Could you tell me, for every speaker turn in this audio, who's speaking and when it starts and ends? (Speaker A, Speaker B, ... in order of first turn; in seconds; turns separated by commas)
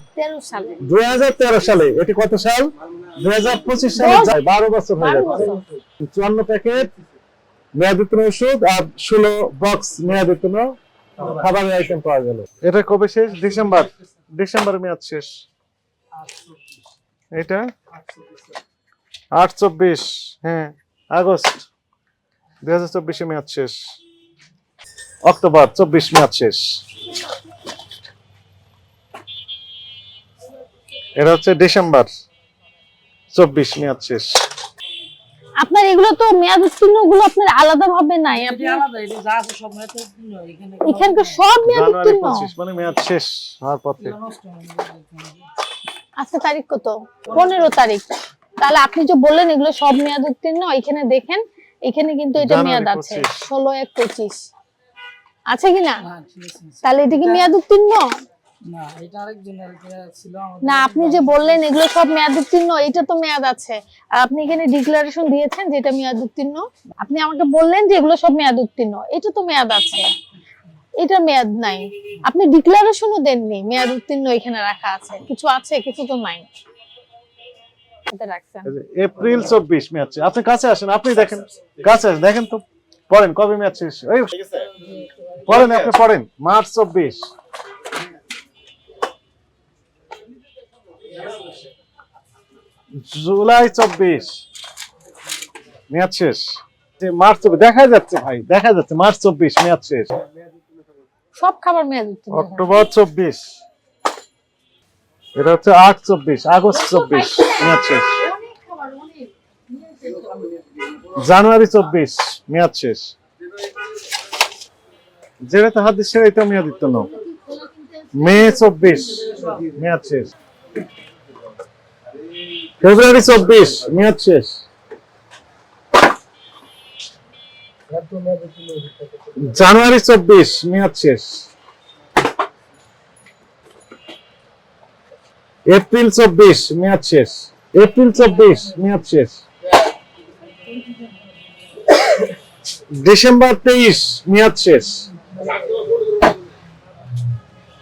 Speaker A: 0.1-0.8, Speaker B: 0.8-5.5, Speaker A: 3.9-4.3, Speaker A: 5.0-5.6, Speaker B: 6.0-6.9, Speaker B: 7.8-10.7, Speaker B: 11.2-15.3, Speaker B: 17.3-17.6, Speaker B: 19.4-21.6, Speaker B: 22.6-23.8, Speaker B: 25.2-26.6, Speaker B: 31.2-32.1, Speaker B: 33.3-34.4, Speaker A: 35.6-38.8, Speaker C: 38.3-41.4, Speaker A: 40.8-42.5, Speaker B: 41.6-44.2, Speaker C: 44.0-45.5, Speaker A: 46.2-54.5, Speaker B: 52.4-53.3, Speaker A: 55.5-56.0, Speaker C: 56.0-57.5, Speaker A: 56.8-58.1, Speaker C: 58.7-61.6, Speaker A: 60.6-70.0, Speaker A: 71.0-76.5, Speaker A: 78.1-78.7, Speaker B: 78.6-84.5, Speaker C: 84.8-85.8, Speaker B: 85.5-87.3, Speaker B: 93.0-94.4, Speaker B: 95.9-96.5, Speaker B: 97.0-100.1, Speaker A: 101.4-102.9, Speaker B: 102.3-103.5, Speaker B: 105.3-108.2, Speaker A: 106.7-109.3, Speaker C: 109.7-110.7, Speaker B: 111.2-113.1, Speaker B: 115.5-117.1, Speaker A: 117.0-118.8, Speaker B: 118.1-120.3, Speaker C: 119.2-119.7, Speaker B: 122.8-124.6, Speaker C: 127.9-129.5, Speaker B: 129.4-131.5, Speaker B: 135.7-139.4, Speaker B: 143.0-145.1